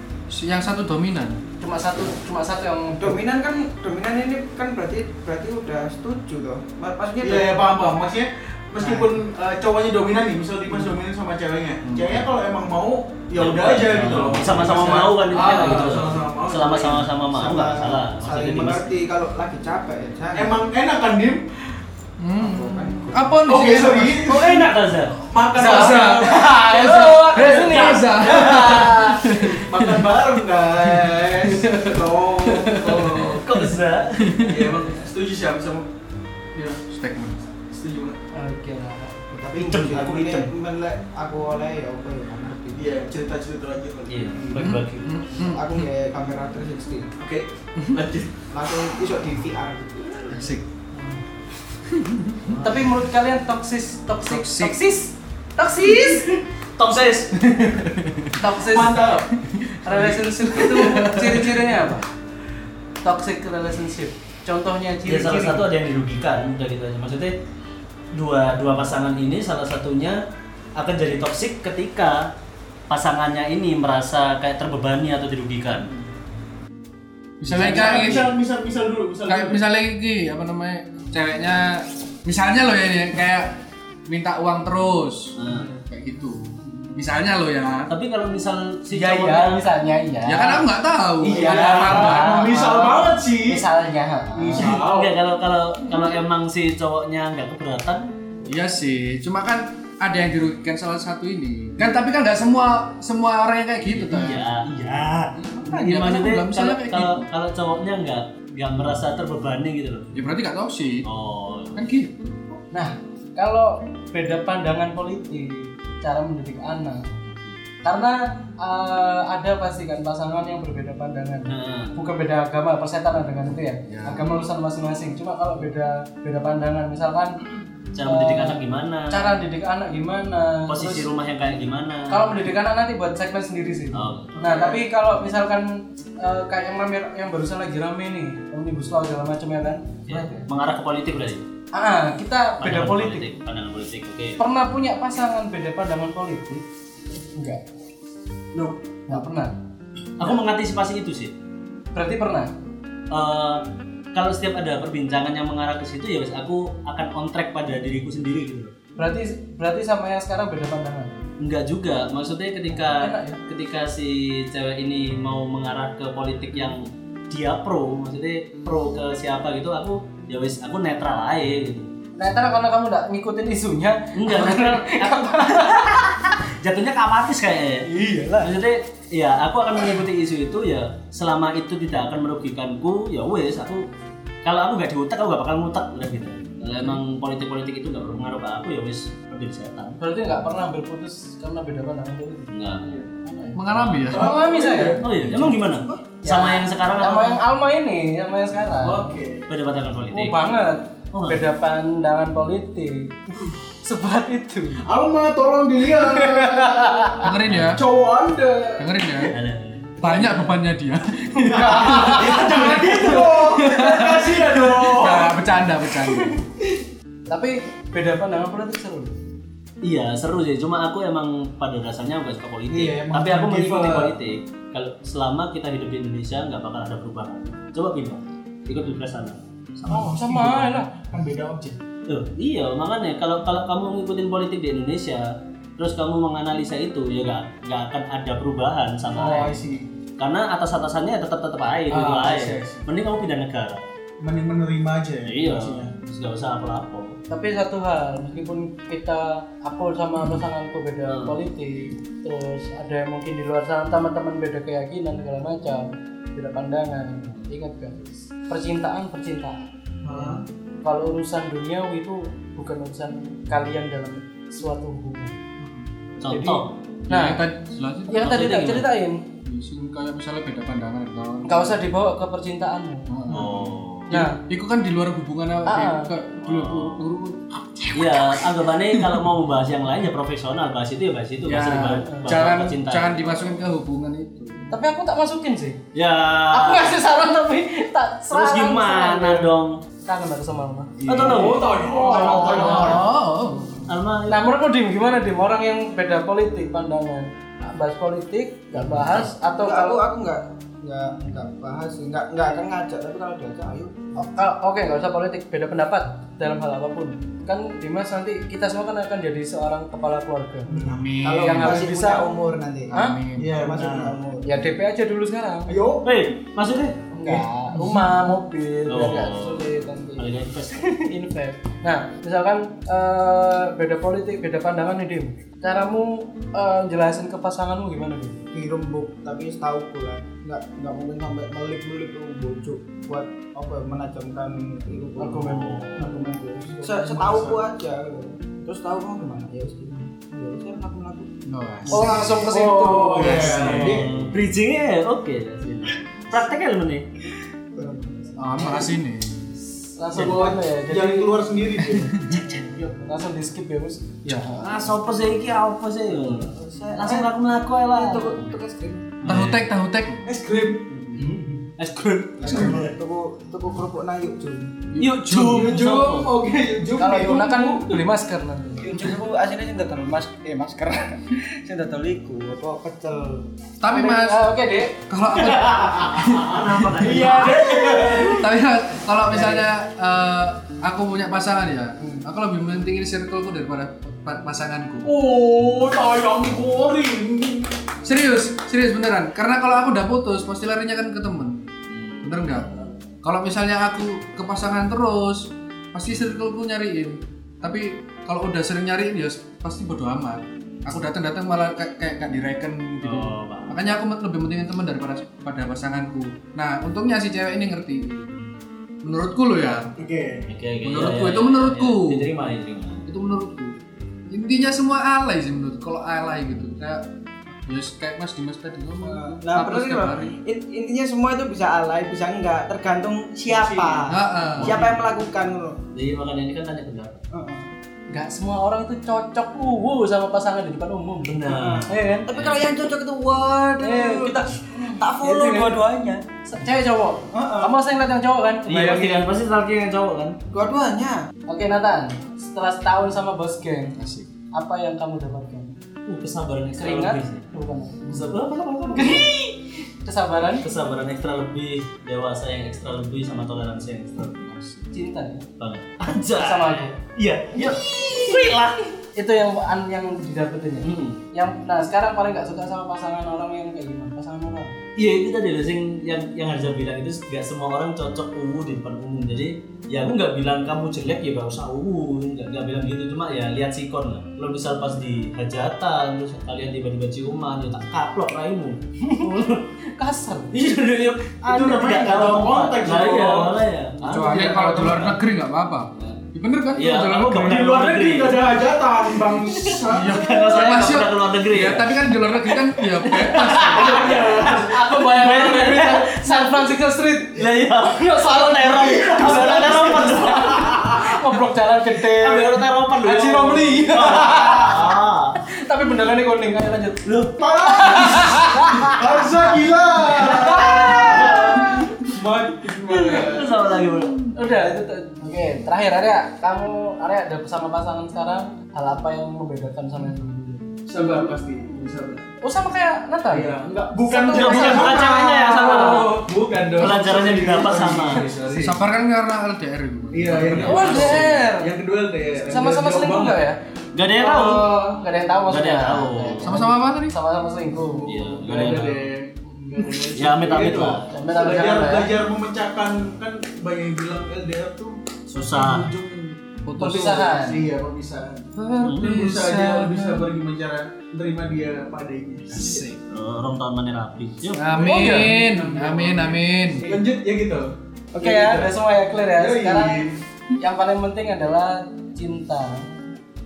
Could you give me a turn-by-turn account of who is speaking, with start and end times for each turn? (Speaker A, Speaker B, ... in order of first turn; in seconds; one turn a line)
Speaker A: 0.3-1.4
Speaker B: 1.6-3.2
Speaker C: 3.0-7.6
Speaker D: 7.2-17.1
Speaker A: 11.9-12.2
Speaker E: 13.3-18.9
Speaker B: 15.3-16.1
Speaker C: 17.3-20.6
Speaker D: 20.4-21.4
Speaker A: 22.2-24.3
Speaker C: 22.4-23.5
Speaker D: 23.4-24.7
Speaker E: 24.2-25.2
Speaker D: 25.3-33.5
Speaker B: 25.6-28.9
Speaker A: 25.6-26.4
Speaker E: 26.9-29.1
Speaker A: 27.2-30.2
Speaker A: 30.9-33.6
Speaker E: 33.2-34.5
Speaker A: 34.2-34.6
Speaker D: 34.4-35.9
Speaker D: 36.5-36.8
Speaker A: 36.9-37.5
Speaker D: 37.7-38.2
Speaker B: 38.3-39.3
Speaker C: 39.3-43.0
Speaker E: 39.6-40.5
Speaker D: 42.8-44.6
Speaker E: 44.1-45.1
Speaker A: 44.5-45.9
Speaker C: 45.4-47.1
Speaker D: 47.2-48.3
Speaker A: 47.8-48.0
Speaker C: 48.5-50.4
Speaker A: 50.3-50.6
Speaker D: 50.9-51.2
Speaker A: 51.9-52.6
Speaker E: 52.5-52.9
Speaker B: 52.6-56.3
Speaker A: 54.3-54.8
Speaker E: 55.9-56.2
Speaker E: 56.8-57.4
Speaker A: 57.4-58.5
Speaker B: 58.4-59.2
Speaker D: 58.6-59.3
Speaker A: 59.4-61.7
Speaker B: 59.8-62.1
Speaker B: 63.0-65.7
Speaker E: 65.1-67.4
Speaker E: 68.1-70.2
Speaker E: 70.8-72.3
Speaker E: 72.9-75.9
Speaker A: 77.4-78.3
Speaker E: 77.5-78.3
Speaker D: 77.5-79.6
Speaker A: 79.3-83.6
Speaker A: 84.1-87.9
Speaker E: 85.4-85.7
Speaker E: 87.9-89.7
Speaker B: 88.9-90.7
Speaker A: 90.3-92.5
Speaker B: 91.2-94.8
Speaker D: 91.2-93.6
Speaker D: 94.3-95.2
Speaker E: 94.6-98.1
Speaker A: 98.5-104.5
Speaker E: 103.8-110.1
Speaker A: 105.3-107.2
Speaker A: 110.1-111.1
Speaker E: 111.0-111.8
Speaker A: 111.7-112.6
Speaker B: 112.7-117.1
Speaker E: 117.3-117.6
Speaker B: 117.8-127.4
Speaker E: 121.5-122.0
Speaker A: 123.9-124.3
Speaker E: 128.0-129.2
Speaker B: 128.0-131.1
Speaker E: 130.7-132.4
Speaker B: 132.1-140.5
Speaker E: 133.9-134.4
Speaker D: 134.4-134.8
Speaker E: 140.1-141.4
Speaker B: 141.7-143.3
Speaker E: 142.6-144.4
Speaker B: 144.4-146.6
Speaker B: 147.3-147.6
Speaker B: 149.1-149.5
Speaker E: 150.2-151.3
Speaker B: 151.9-152.5
Speaker E: 153.1-158.7
Speaker B: 159.0-161.1
Speaker E: 161.4-171.9
Speaker B: 162.7-163.4
Speaker B: 172.2-176.1
Speaker E: 174.2-183.9
Speaker B: 177.9-178.5
Speaker E: 184.4-190.0
Speaker B: 190.0-195.0
Speaker E: 192.5-193.0
Speaker A: 193.5-194.3
Speaker E: 193.7-194.1
Speaker D: 194.1-195.7
Speaker E: 195.0-197.4
Speaker B: 196.2-199.2
Speaker D: 198.8-199.5
Speaker E: 199.5-200.4
Speaker B: 200.1-203.2
Speaker E: 201.1-201.4
Speaker B: 203.8-204.8
Speaker D: 204.8-207.2
Speaker B: 206.0-207.3
Speaker A: 207.2-207.8
Speaker E: 207.5-207.8
Speaker D: 207.7-209.1
Speaker A: 208.8-209.4
Speaker E: 209.2-210.5
Speaker A: 210.0-216.4
Speaker B: 211.5-212.4
Speaker D: 211.5-215.4
Speaker B: 217.3-219.2
Speaker E: 219.8-230.1
Speaker D: 222.7-224.2
Speaker D: 229.8-231.8
Speaker B: 229.9-230.9
Speaker E: 232.1-239.6
Speaker D: 239.2-239.9
Speaker E: 240.2-243.8
Speaker D: 241.9-242.8
Speaker D: 244.2-245.9
Speaker E: 245.2-247.2
Speaker B: 247.3-265.3
Speaker E: 251.1-251.4
Speaker D: 260.0-260.4
Speaker D: 265.6-265.9
Speaker E: 266.2-266.7
Speaker B: 266.2-267.4
Speaker A: 267.1-268.5
Speaker B: 268.1-269.2
Speaker E: 268.2-268.9
Speaker A: 269.4-271.8
Speaker B: 271.4-273.1
Speaker A: 273.1-279.2
Speaker D: 273.3-273.7
Speaker E: 273.3-274.1
Speaker B: 274.1-274.4
Speaker B: 275.7-276.1
Speaker E: 276.4-277.1
Speaker E: 277.9-283.2
Speaker A: 281.5-284.8
Speaker B: 282.1-282.3
Speaker B: 284.7-285.8
Speaker E: 285.9-287.0
Speaker B: 286.5-289.5
Speaker E: 288.3-289.8
Speaker B: 290.1-293.0
Speaker E: 291.1-293.0
Speaker D: 291.1-293.1
Speaker A: 291.1-291.5
Speaker A: 292.5-293.9
Speaker E: 293.9-294.4
Speaker B: 294.3-300.0
Speaker E: 299.0-299.3
Speaker C: 299.6-304.1
Speaker B: 304.1-310.8
Speaker D: 310.7-311.1
Speaker A: 310.8-311.9
Speaker C: 311.2-312.9
Speaker B: 311.4-312.3
Speaker A: 312.9-313.6
Speaker B: 312.9-313.2
Speaker D: 313.4-314.2
Speaker C: 313.5-314.6
Speaker B: 314.4-315.7
Speaker D: 315.7-316.1
Speaker E: 316.0-317.0
Speaker B: 317.1-328.4
Speaker D: 317.2-318.1
Speaker E: 318.9-319.7
Speaker E: 320.2-320.9
Speaker C: 328.5-341.4
Speaker B: 335.2-336.4
Speaker E: 335.2-336.1
Speaker D: 336.6-337.6
Speaker A: 341.5-342.3
Speaker E: 341.9-342.4
Speaker B: 341.9-344.0
Speaker D: 342.5-344.1
Speaker E: 343.2-347.1
Speaker C: 347.7-348.7
Speaker A: 348.4-349.4
Speaker B: 349.6-351.4
Speaker D: 350.1-352.1
Speaker A: 351.9-352.5
Speaker B: 352.5-354.6
Speaker E: 354.3-358.5
Speaker C: 356.1-357.3
Speaker C: 357.9-359.2
Speaker E: 359.2-359.6
Speaker A: 359.3-360.3
Speaker D: 360.2-360.9
Speaker E: 361.1-362.9
Speaker C: 362.4-364.9
Speaker A: 365.0-365.8
Speaker E: 365.0-366.3
Speaker D: 365.5-368.0
Speaker B: 367.0-369.1
Speaker C: 368.8-373.4
Speaker A: 373.8-374.4
Speaker B: 373.9-375.0
Speaker A: 375.1-377.2
Speaker E: 376.2-378.4
Speaker B: 377.0-378.4
Speaker D: 377.0-378.3
Speaker A: 378.1-385.1
Speaker B: 379.3-379.6
Speaker D: 385.0-387.7
Speaker A: 388.0-391.6
Speaker E: 391.9-392.9
Speaker A: 392.2-392.7
Speaker A: 393.2-408.4
Speaker E: 403.0-403.8
Speaker A: 409.0-409.9
Speaker D: 410.0-410.4
Speaker E: 410.5-413.0
Speaker A: 410.8-412.3
Speaker A: 413.1-413.8
Speaker A: 414.3-417.1
Speaker A: 417.6-420.4
Speaker C: 419.0-425.8
Speaker E: 423.5-424.9
Speaker A: 424.1-424.8
Speaker E: 425.9-427.2
Speaker C: 427.3-427.7
Speaker B: 428.1-432.3
Speaker E: 431.3-432.6
Speaker C: 431.5-435.8
Speaker B: 433.8-439.3
Speaker C: 437.3-437.7
Speaker E: 438.7-440.4
Speaker C: 440.5-441.2
Speaker B: 441.5-444.0
Speaker A: 444.0-444.3
Speaker B: 444.5-445.7
Speaker E: 446.1-447.5
Speaker B: 446.8-448.2
Speaker E: 448.1-449.3
Speaker B: 448.9-450.7
Speaker E: 450.6-454.4
Speaker A: 454.3-454.9
Speaker B: 454.9-455.4
Speaker E: 455.6-458.9
Speaker B: 456.4-457.0
Speaker B: 459.1-464.8
Speaker E: 460.8-461.2
Speaker E: 465.0-479.7
Speaker B: 479.0-479.3
Speaker B: 480.0-480.6
Speaker E: 480.5-485.1
Speaker D: 481.4-483.6
Speaker A: 484.1-487.5
Speaker D: 484.4-485.1
Speaker E: 486.8-496.6
Speaker D: 487.4-490.8
Speaker A: 489.9-494.0
Speaker B: 493.2-509.4
Speaker D: 493.7-494.8
Speaker E: 497.4-501.0
Speaker D: 499.3-499.9
Speaker E: 502.1-505.4
Speaker E: 507.1-508.3
Speaker D: 507.4-513.6
Speaker B: 510.1-513.2
Speaker E: 510.2-511.9
Speaker E: 512.9-514.4
Speaker B: 514.3-520.6
Speaker D: 520.9-522.3
Speaker B: 522.4-526.3
Speaker D: 523.3-528.7
Speaker E: 524.3-526.2
Speaker E: 526.8-528.3
Speaker B: 528.4-528.8
Speaker A: 528.6-531.4
Speaker D: 530.1-533.4
Speaker E: 530.6-530.9
Speaker B: 530.6-531.7
Speaker B: 532.5-533.6
Speaker E: 533.9-534.8
Speaker B: 534.2-538.7
Speaker E: 535.5-536.5
Speaker A: 536.4-537.1
Speaker D: 537.8-546.5
Speaker E: 538.0-539.1
Speaker E: 540.1-541.1
Speaker B: 540.5-542.1
Speaker E: 545.3-545.9
Speaker A: 546.6-547.4
Speaker B: 546.8-547.6
Speaker D: 547.0-552.8
Speaker A: 548.6-550.4
Speaker E: 548.8-549.1
Speaker A: 552.5-553.0
Speaker E: 553.1-554.7
Speaker A: 554.5-557.0
Speaker D: 554.7-558.7
Speaker B: 554.8-555.4
Speaker B: 558.1-560.0
Speaker D: 559.4-560.2
Speaker B: 560.6-563.0